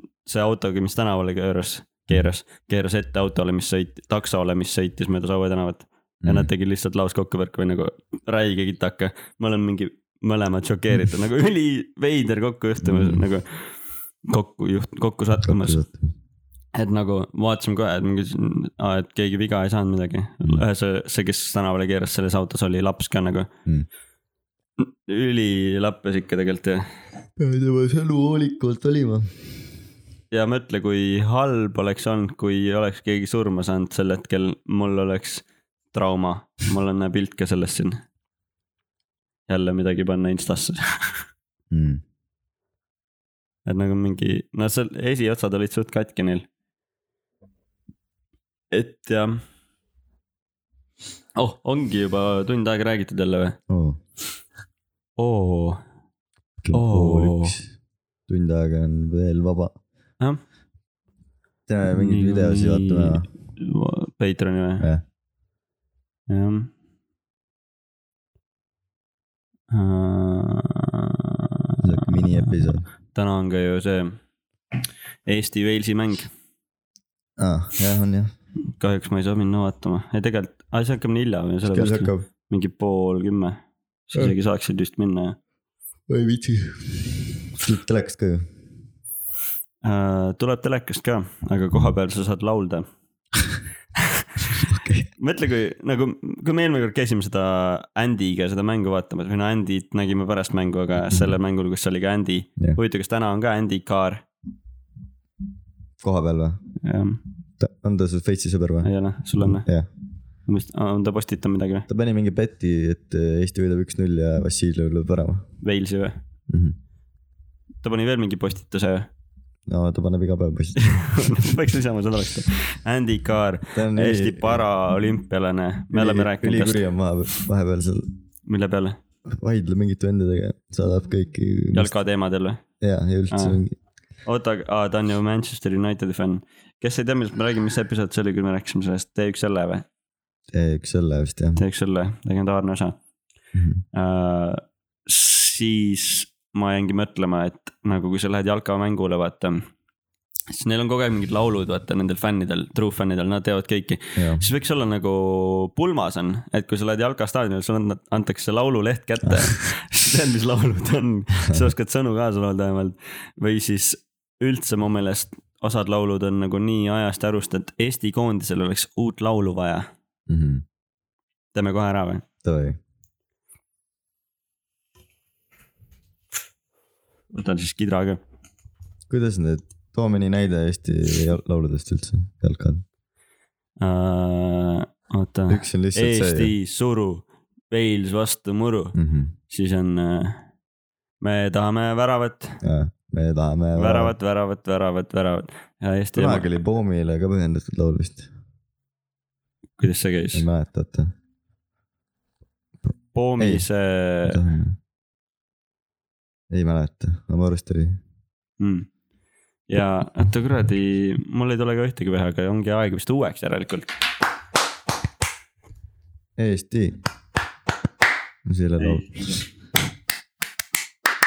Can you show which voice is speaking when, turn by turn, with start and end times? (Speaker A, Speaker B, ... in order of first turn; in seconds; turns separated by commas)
Speaker A: 0.2-13.6, Speaker B: 6.2-6.5, Speaker B: 12.8-13.3, Speaker A: 14.3-15.8, Speaker B: 15.4-16.1, Speaker A: 16.8-23.5, Speaker A: 24.8-26.8, Speaker B: 27.4-29.6, Speaker A: 30.3-38.0, Speaker A: 39.5-41.1, Speaker B: 41.7-42.0, Speaker A: 43.7-46.5, Speaker A: 48.7-49.4, Speaker A: 51.4-53.6, Speaker B: 53.7-54.0, Speaker A: 55.2-55.8, Speaker B: 56.6-57.7, Speaker A: 56.7-57.6, Speaker B: 58.3-59.7, Speaker B: 61.7-63.3, Speaker A: 61.9-64.9, Speaker A: 66.3-66.7, Speaker A: 69.7-74.2, Speaker B: 71.8-72.9, Speaker A: 75.3-76.3, Speaker B: 77.4-78.3, Speaker A: 78.8-83.6, Speaker B: 81.6-82.3, Speaker A: 84.1-85.4, Speaker B: 86.1-88.5, Speaker A: 89.8-92.9, Speaker A: 94.0-94.6, Speaker B: 94.6-95.1, Speaker A: 95.2-104.2, Speaker B: 101.1-101.4, Speaker B: 106.0-106.6, Speaker A: 106.8-107.2, Speaker B: 107.6-108.9, Speaker A: 108.8-109.7, Speaker B: 109.4-109.9, Speaker A: 110.5-111.9, Speaker B: 111.9-115.5, Speaker A: 115.6-116.2, Speaker B: 116.5-116.8, Speaker A: 117.8-119.1, Speaker B: 119.7-121.4, Speaker A: 120.8-126.8, Speaker B: 123.7-124.7, Speaker B: 125.9-128.1, Speaker A: 128.5-129.0, Speaker B: 129.3-131.9, Speaker A: 131.7-132.6, Speaker B: 132.8-133.8, Speaker A: 133.3-133.6, Speaker A: 134.3-139.9, Speaker B: 140.5-141.6, Speaker A: 141.6-143.0, Speaker B: 143.5-143.8, Speaker A: 143.9-149.6, Speaker A: 150.5-169.9, Speaker B: 154.2-154.4, Speaker B: 170.3-170.6, Speaker A: 171.6-172.2, Speaker B: 172.4-172.8, Speaker A: 177.3-178.2, Speaker B: 179.1-182.8, Speaker A: 183.8-189.0, Speaker B: 185.5-186.5, Speaker B: 189.0-189.3, Speaker A: 189.5-190.4, Speaker A: 191.2-192.6, Speaker B: 192.6-194.1, Speaker A: 193.8-196.5, Speaker B: 196.2-198.3, Speaker A: 199.8-200.5, Speaker B: 200.3-201.1, Speaker A: 203.1-204.4, Speaker B: 203.4-203.7, Speaker B: 204.3-204.8, Speaker B: 206.5-208.0, Speaker A: 208.6-208.9, Speaker A: 209.7-213.9, Speaker B: 216.4-217.0, Speaker B: 218.5-219.1, Speaker A: 218.8-219.5